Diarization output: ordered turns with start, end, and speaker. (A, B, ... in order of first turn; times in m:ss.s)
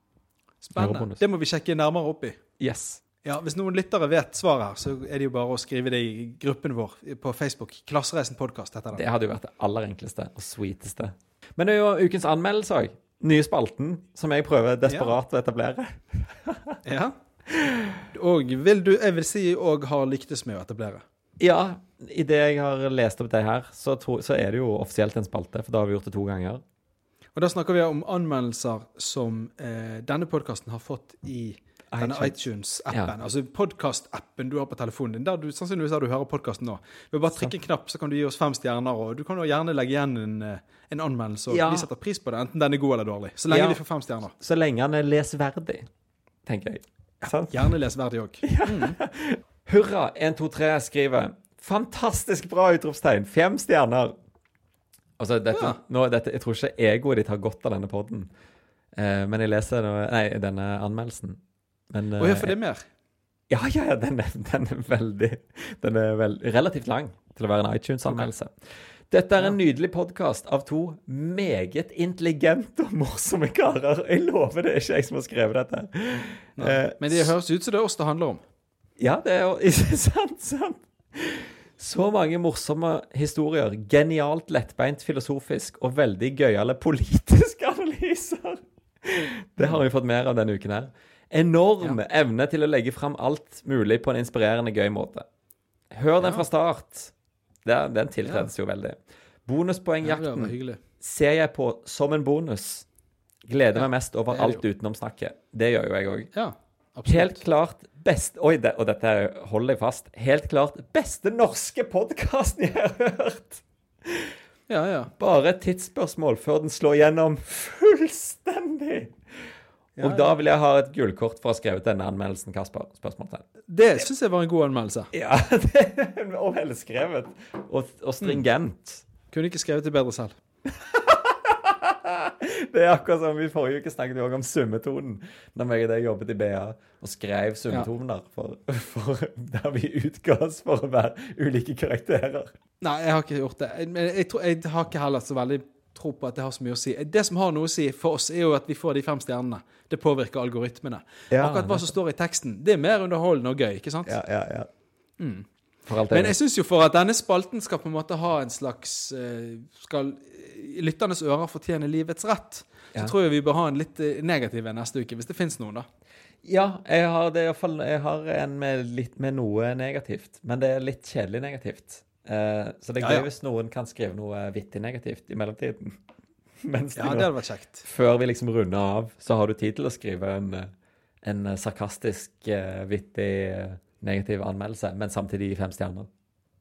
0:00.6-0:02.4 A
0:00.8-0:01.2 B
0:02.6-0:03.0 B
0:03.2-0:09.0 A
0:08.9-0:16.8 B
0:14.9-0:15.2 A
0:16.8-0:17.2 A
0:17.5-0:18.0 B
0:18.1-0:21.0 A
0:21.4-0:26.6 B
0:27.4-0:44.3 A
0:31.9-0:32.4 B
0:41.5-0:41.9 B
0:43.5-0:43.8 B
0:44.4-0:45.9 B
0:46.5-0:47.8 B
0:47.2-0:49.0 A
0:48.4-0:54.2 B
0:55.2-0:58.3 B
0:55.5-0:55.8 A
0:59.0-1:02.5 B
1:02.2-1:02.9 A
1:03.5-1:08.5 B
1:09.1-1:17.3 B
1:16.6-1:18.4 A
1:19.0-1:35.3 B
1:35.9-1:37.1 B
1:37.6-1:42.9 B
1:38.2-1:38.5 A
1:40.0-1:40.8 A
1:43.5-1:46.3 B
1:43.8-1:44.6 A
1:46.3-1:47.4 A
1:47.1-1:54.4 B
1:54.7-1:55.1 A
1:55.2-2:03.4 B
2:00.0-2:00.4 A
2:03.7-2:05.1 A
2:05.1-2:09.0 B
2:09.3-2:10.4 A
2:10.7-2:22.5 B
2:22.8-2:34.2 A
2:31.3-2:31.9 B
2:34.1-2:34.7 B
2:35.2-2:35.5 A
2:35.9-2:36.4 B
2:36.1-2:45.9 A
2:46.4-2:56.0 B
2:53.0-2:53.3 A
2:56.6-2:57.3 B
2:57.0-2:57.9 A
2:57.8-3:00.7 B
3:01.2-3:06.1 B